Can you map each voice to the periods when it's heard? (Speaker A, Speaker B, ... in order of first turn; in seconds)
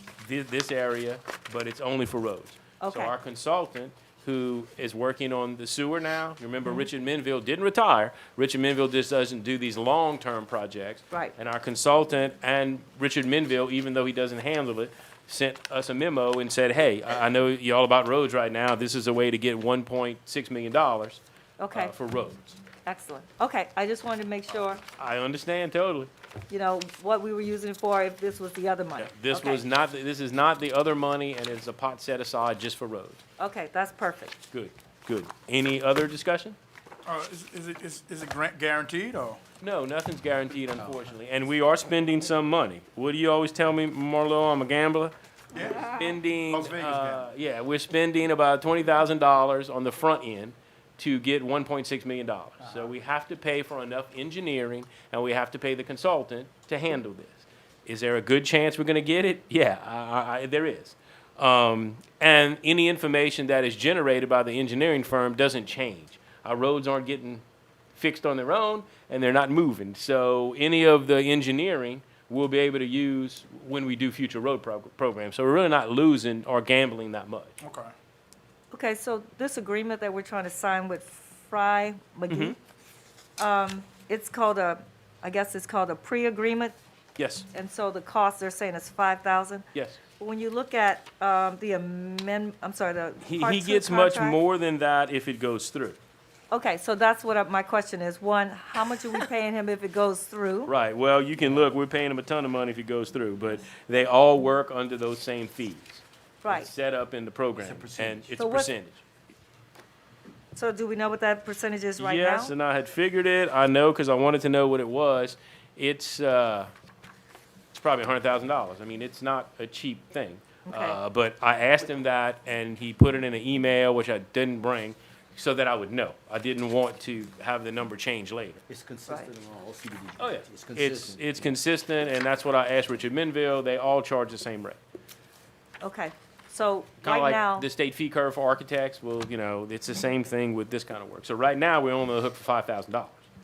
Speaker A: 0.2-22.6, 24.8-26.1, 29.0-33.2, 34.5-36.6, 39.6-45.1, 45.7-67.4, 68.0-77.6, 82.3-82.6, 87.2-87.5, 89.7-90.0, 93.2-96.0, 100.7-109.0, 112.0-116.7, 117.7-128.6, 130.2-134.8, 137.0-143.2
Speaker B: 2.8-3.1, 21.6-21.9, 22.9-24.8, 26.5-29.6, 33.4-34.4, 78.7-82.5, 83.4-86.8, 87.5-89.7, 90.2-94.4, 96.5-100.7, 106.4-106.7, 108.4-108.7, 110.5-112.5, 120.7-121.0, 135.8-137.7
Speaker C: 37.1-39.4, 45.5-46.0, 46.5-47.2, 77.6-77.9
Speaker D: 107.6-108.4, 128.7-131.5